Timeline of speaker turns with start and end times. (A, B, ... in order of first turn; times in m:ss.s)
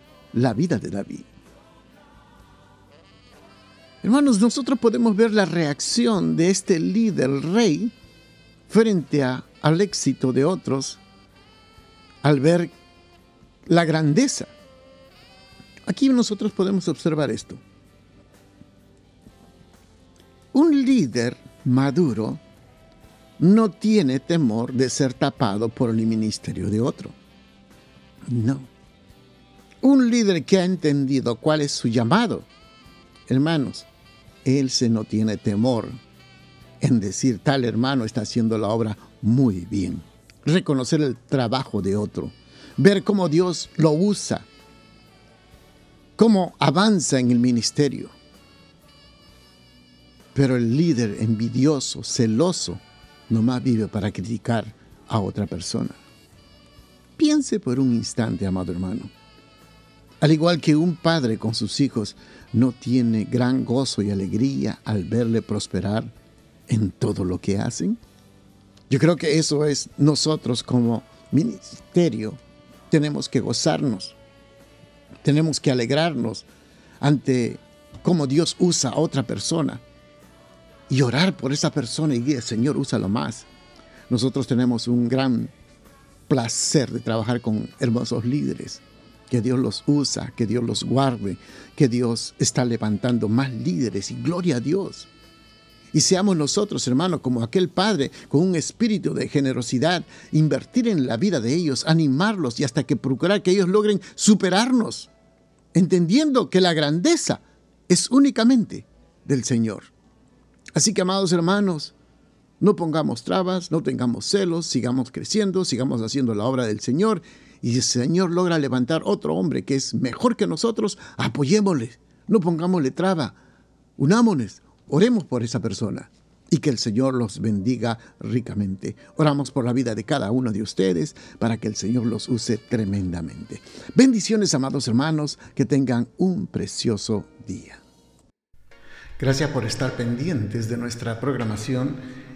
0:00.3-0:01.3 A
0:04.0-0:07.9 A
0:08.7-0:11.0 A
0:12.2-0:12.7 A
0:13.7-0:14.5 A
0:15.9-0:17.6 A
0:20.5-0:22.4 A
0:23.4-0:27.2 A
0:28.3-0:28.7 A
0:29.8-0:32.5 A
0:33.3-0:33.9 A
0:34.4-0:36.0 A
0:36.8-0:44.5 A
0:46.2-0:48.1 A
0:50.4-0:56.0 A
0:57.2-0:59.1 A
1:00.2-1:06.1 A
1:06.7-1:08.0 A
1:08.9-1:12.4 A
1:12.9-1:14.2 A
1:15.2-1:16.5 A
1:17.0-1:19.8 A
1:20.9-1:23.5 A
1:24.1-1:25.5 A
1:26.3-1:35.1 A
1:35.9-1:45.1 A
1:45.7-1:49.9 A
1:50.8-1:51.9 A
1:52.6-2:03.4 A
2:04.0-2:17.8 A
2:19.2-2:22.0 A